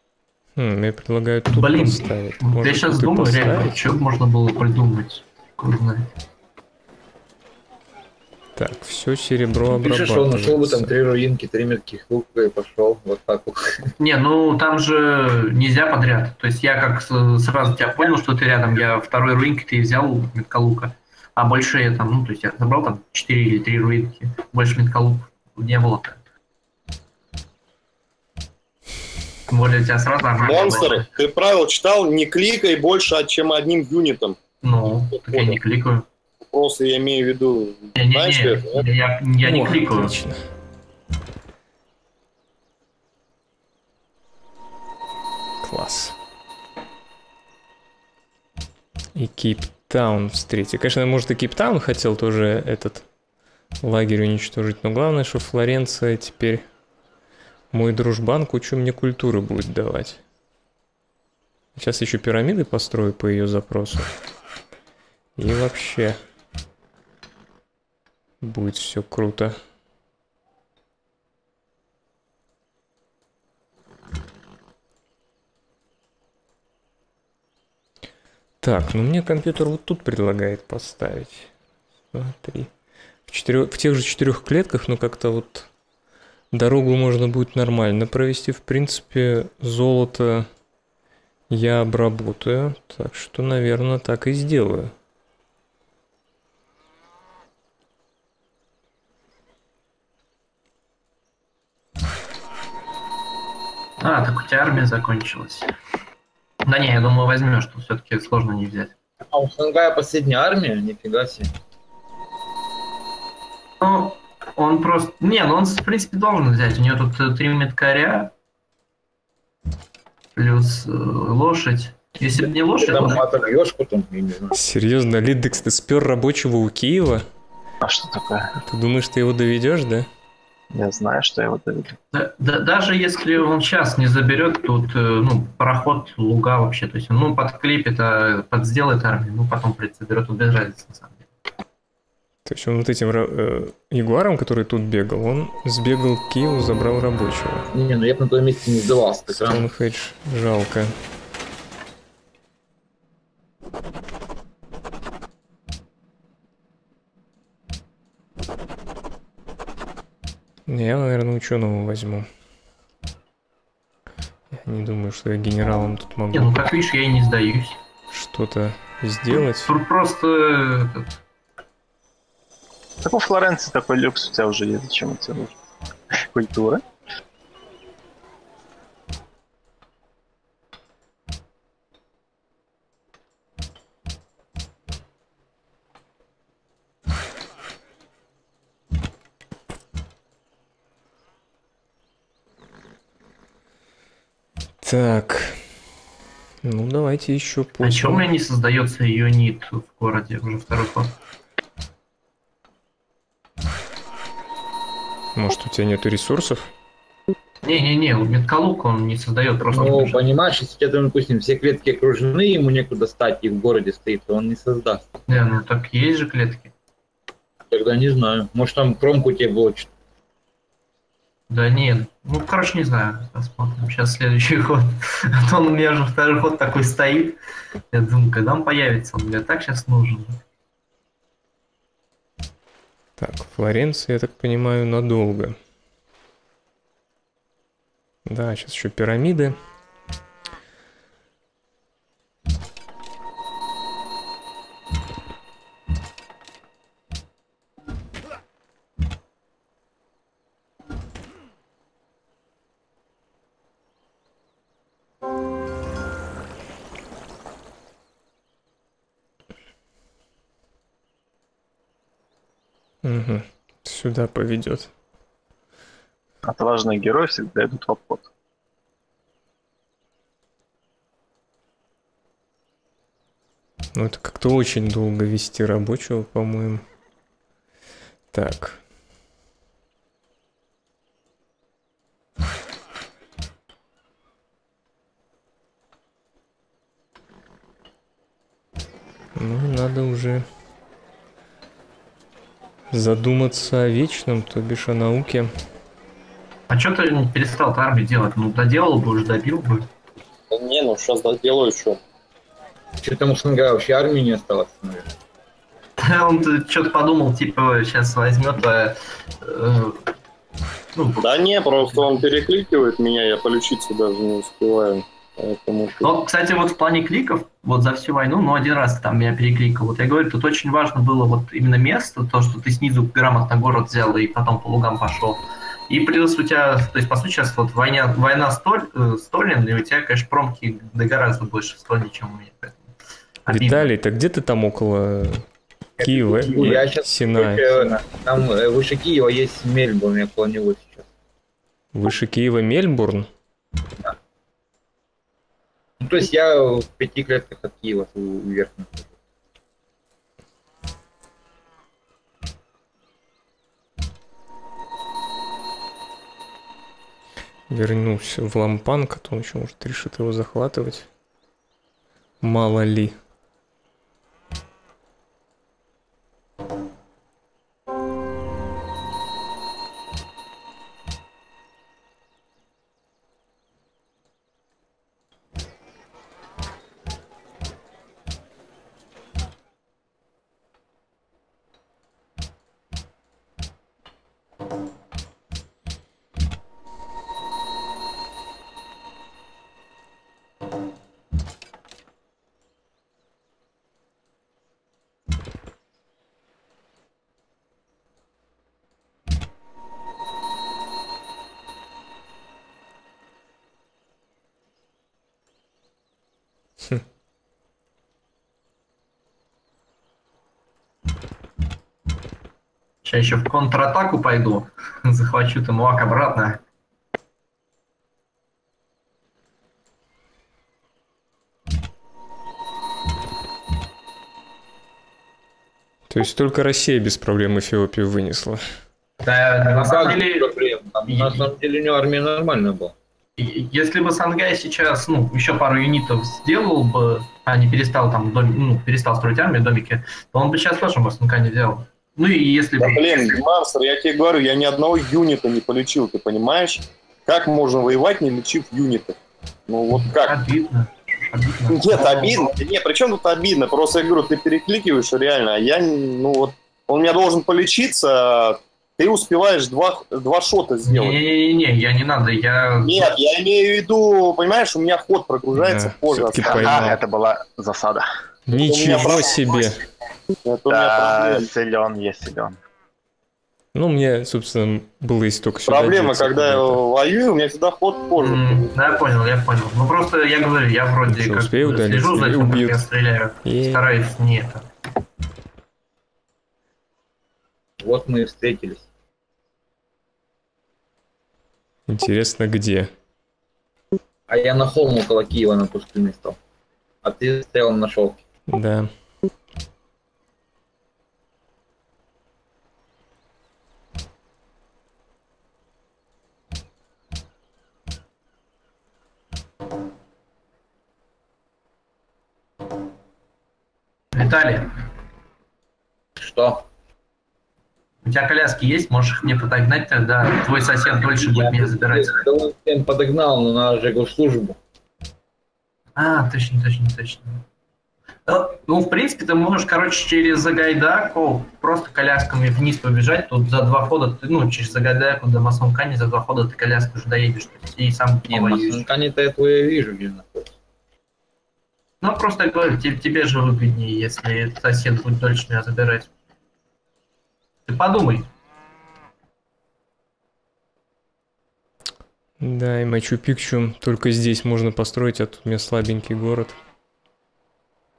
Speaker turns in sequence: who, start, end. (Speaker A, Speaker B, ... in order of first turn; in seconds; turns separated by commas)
Speaker A: 0.6-3.8, Speaker B: 1.5-6.1, Speaker A: 8.6-10.9, Speaker C: 9.7-13.9, Speaker B: 14.0-26.2, Speaker B: 29.5-31.1, Speaker D: 30.4-34.4, Speaker B: 34.6-36.0, Speaker D: 35.1-35.6, Speaker D: 36.5-38.9, Speaker B: 38.0-40.1, Speaker A: 39.4-40.4, Speaker A: 45.6-46.1, Speaker A: 49.1-53.0, Speaker A: 53.8-56.6, Speaker A: 57.7-60.2, Speaker A: 61.8-64.1, Speaker A: 65.4-66.2, Speaker A: 68.4-69.5, Speaker A: 78.6-81.5, Speaker A: 82.1-82.7, Speaker A: 83.3-85.7, Speaker A: 86.5-90.5, Speaker A: 91.5-94.9, Speaker B: 104.0-105.7, Speaker B: 106.6-108.9, Speaker C: 109.3-111.5, Speaker B: 113.8-118.3, Speaker B: 120.3-123.2, Speaker C: 122.8-124.5, Speaker A: 124.5-127.2, Speaker E: 127.8-128.5, Speaker A: 128.6-130.1, Speaker E: 130.7-131.9, Speaker B: 132.1-141.2, Speaker A: 142.4-147.7, Speaker C: 147.7-149.7, Speaker A: 149.3-150.9, Speaker A: 160.7-162.3, Speaker A: 164.5-166.6, Speaker B: 166.3-167.8, Speaker A: 168.1-169.7, Speaker B: 169.6-171.2, Speaker E: 173.0-175.6, Speaker E: 176.1-176.8, Speaker A: 194.8-195.6, Speaker A: 196.6-198.3, Speaker B: 197.8-201.1, Speaker A: 205.3-206.7, Speaker B: 207.6-210.2, Speaker C: 209.7-215.1, Speaker B: 215.3-216.7, Speaker C: 217.7-219.9, Speaker B: 221.5-227.4, Speaker B: 227.9-230.4, Speaker A: 233.2-235.6, Speaker A: 238.3-239.5, Speaker A: 263.0-264.9, Speaker E: 266.4-268.3, Speaker A: 273.9-276.8, Speaker A: 278.3-278.8, Speaker A: 289.4-290.4, Speaker A: 292.9-295.5, Speaker B: 296.7-299.9, Speaker D: 300.5-302.0, Speaker C: 303.0-305.1, Speaker B: 306.0-310.0, Speaker B: 310.9-311.3, Speaker D: 311.2-316.1, Speaker B: 316.0-332.9, Speaker B: 333.4-333.9, Speaker A: 333.5-335.4, Speaker A: 336.0-337.9, Speaker C: 336.0-341.0, Speaker A: 341.9-343.3, Speaker C: 346.0-349.1, Speaker A: 357.7-361.1, Speaker A: 362.4-363.1, Speaker B: 413.0-416.6, Speaker A: 426.1-428.6, Speaker B: 429.2-430.5, Speaker C: 429.6-432.9, Speaker B: 431.1-431.5, Speaker B: 433.4-443.2, Speaker D: 442.8-449.2, Speaker D: 449.7-450.4, Speaker B: 449.9-452.4, Speaker D: 451.7-461.2, Speaker B: 460.8-463.1, Speaker D: 462.8-466.9, Speaker A: 465.5-467.0, Speaker E: 466.4-468.1, Speaker A: 468.5-469.8, Speaker D: 468.5-469.6, Speaker D: 470.4-471.5, Speaker E: 470.7-472.6, Speaker A: 473.7-476.8, Speaker D: 475.6-478.7, Speaker B: 478.2-484.6, Speaker A: 481.1-482.9, Speaker A: 483.4-483.8, Speaker C: 487.8-488.9, Speaker A: 491.9-492.9, Speaker C: 494.3-496.4, Speaker C: 497.0-498.2, Speaker A: 498.5-498.9, Speaker B: 514.1-514.8, Speaker C: 516.2-516.6, Speaker B: 518.0-522.2, Speaker C: 521.2-524.6, Speaker B: 526.0-527.4, Speaker B: 528.3-538.9, Speaker C: 538.3-540.5, Speaker B: 542.0-546.1, Speaker B: 547.6-548.3, Speaker A: 552.4-556.6